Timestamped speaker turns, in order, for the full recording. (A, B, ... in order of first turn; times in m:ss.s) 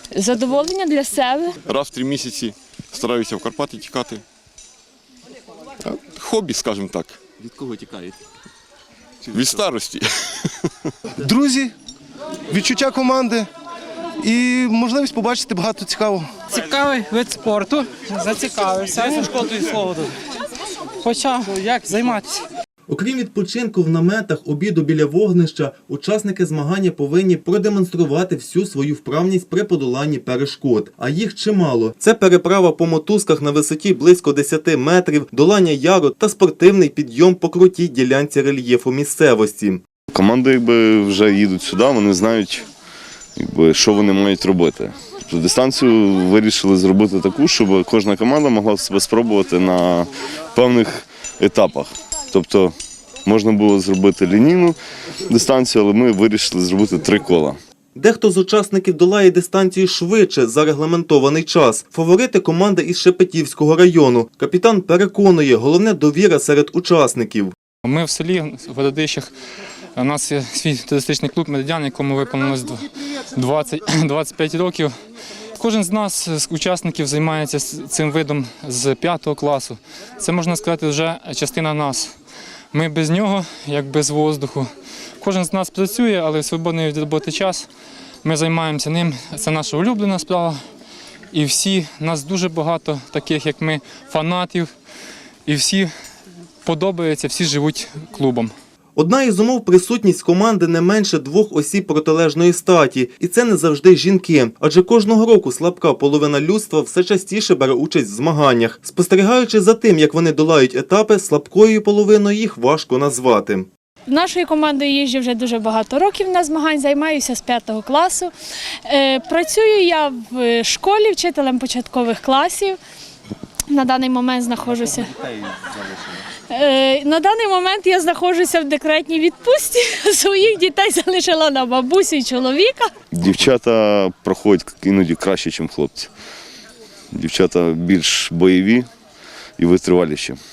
0:00.2-0:01.5 A
0:01.6-0:04.2 B
0:05.8-0:08.0 B
0:09.3-0:10.1 B
0:11.2-0:11.7 C
0:12.5-0:13.5 C
0:14.2-0:16.3 C
0:16.5-0:20.0 D
0:21.0-0:22.4 D
0:22.9-0:39.8 E
0:40.1-0:42.6 F
0:43.4-0:52.7 F
0:53.2-0:54.8 F
0:55.3-0:57.6 F
0:58.0-1:07.5 E
1:07.8-1:09.3 G
1:09.9-1:14.9 G
1:15.6-1:22.1 G
1:22.7-1:27.7 G
1:28.2-1:30.6 G
1:31.3-1:34.7 G
1:35.4-1:35.9 G
1:36.6-1:38.5 G
1:39.0-1:53.7 E
1:54.1-1:58.3 A
1:58.9-2:02.8 A
2:03.7-2:05.1 A
2:06.5-2:12.9 A
2:13.1-2:16.1 F
2:17.1-2:18.9 F
2:19.6-2:20.4 F